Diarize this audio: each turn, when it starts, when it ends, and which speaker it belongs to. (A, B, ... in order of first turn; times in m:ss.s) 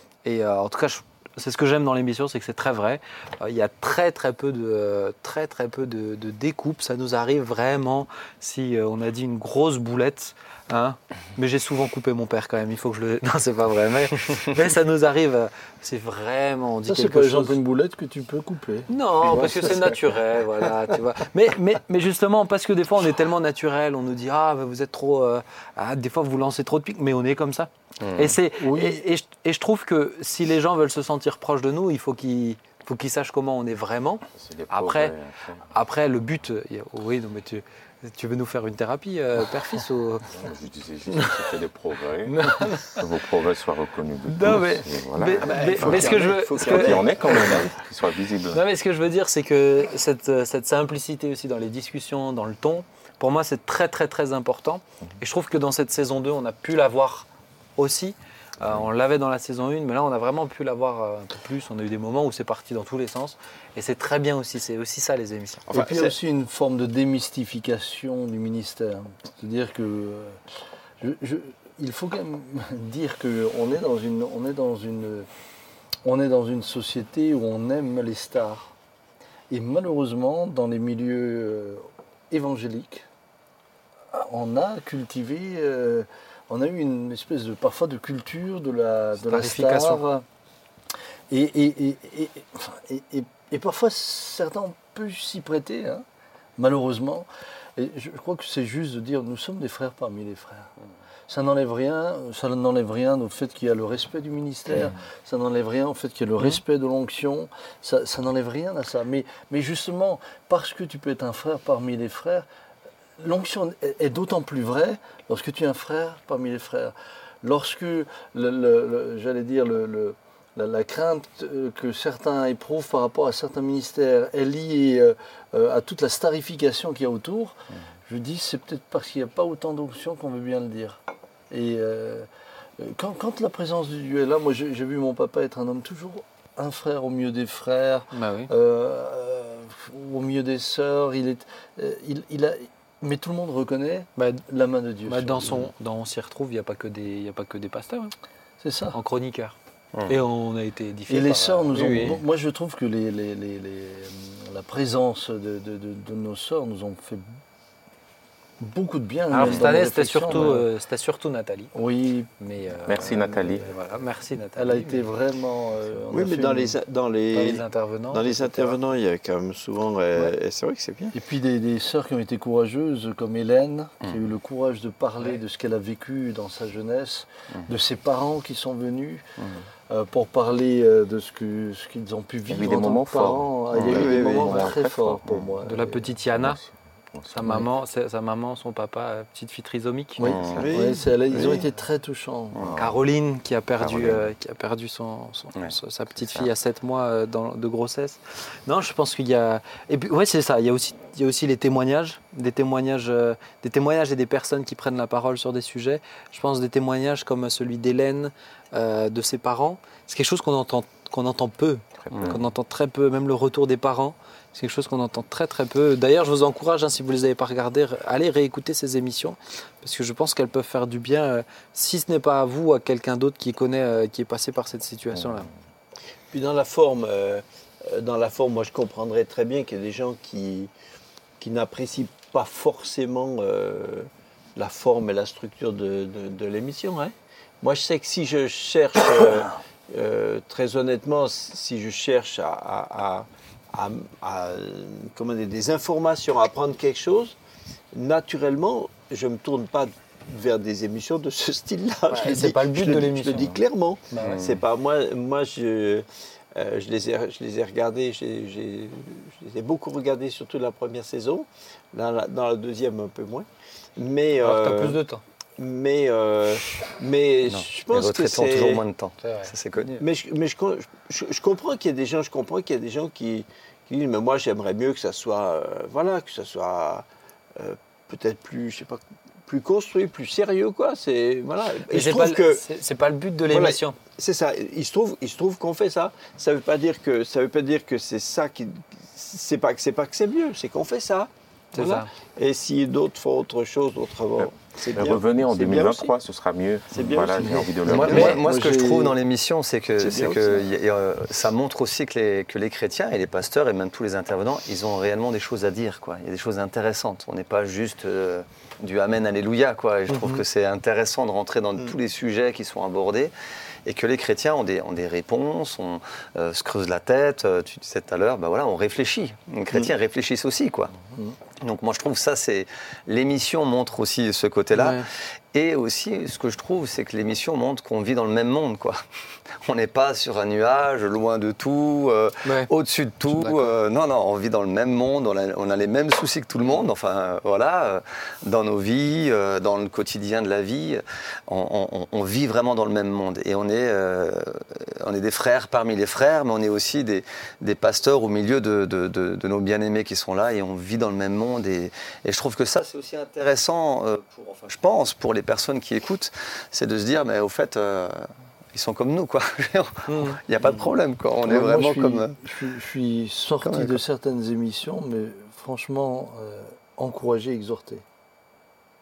0:00.2-0:17.6 A
0:16.9-0:20.0 B
0:18.9-0:35.1 A
0:28.0-0:28.4 C
0:28.6-0:29.0 B
0:34.4-0:35.6 C
0:35.7-0:40.4 A
0:40.3-0:48.6 C
0:42.3-0:43.0 A
0:44.3-0:47.6 A
0:45.4-0:47.6 D
0:48.5-1:05.7 A
1:05.7-1:06.1 D
1:05.7-1:10.4 B
1:11.0-1:15.3 B
1:16.0-1:18.7 B
1:19.5-1:23.0 B
1:24.1-1:30.2 B
1:29.2-1:30.0 A
1:31.3-1:36.0 B
1:36.6-1:40.7 B
1:41.3-1:52.5 B
1:53.2-2:25.7 B
2:18.1-2:18.5 A
2:24.2-2:24.4 A
2:25.0-2:28.1 A
2:28.6-2:29.0 B
2:28.9-2:29.6 A
2:30.1-2:32.2 A
2:31.1-2:37.2 B
2:38.6-2:40.7 B
2:39.3-2:41.7 A
2:41.7-2:42.3 B
2:42.4-2:45.1 A
2:42.8-2:43.7 C
2:44.6-2:46.8 B
2:46.1-2:51.1 D
2:47.3-2:48.8 A
2:51.1-2:59.2 B
2:59.9-3:06.1 B
3:02.5-3:05.3 C
3:03.8-3:04.7 D
3:05.6-3:06.6 A
3:06.3-3:07.7 C
3:07.3-3:10.2 A
3:10.2-3:10.7 E
3:10.2-3:12.6 B
3:10.2-3:10.7 C
3:10.6-3:11.6 D
3:12.6-3:13.0 C
3:12.8-3:45.5 A
3:13.8-3:14.3 C
3:16.2-3:16.5 C
3:32.0-3:32.4 C
3:32.1-3:32.4 E
3:45.2-3:45.4 C
3:46.3-3:50.7 D
3:51.4-4:07.4 D
4:07.9-4:23.4 D
4:12.1-4:14.4 A
4:14.2-4:14.6 E
4:24.0-4:25.0 D
4:24.4-4:25.2 A
4:25.6-4:28.8 D
4:27.5-4:29.9 E
4:29.2-4:30.0 A
4:29.8-4:42.6 D
4:41.9-4:44.0 A
4:43.5-4:56.1 D
4:51.7-4:52.1 A
4:54.9-4:58.4 C
4:56.9-4:58.3 D
4:57.4-4:59.1 B
4:57.8-5:13.3 E
4:58.0-4:58.4 A
5:00.0-5:00.7 D
5:13.8-5:20.9 E
5:21.6-5:29.0 E
5:24.7-5:25.1 A
5:29.5-6:02.4 E
5:32.4-5:32.7 A
5:33.2-5:33.7 A
6:00.1-6:00.4 A
6:01.4-6:08.0 B
6:03.6-6:04.0 E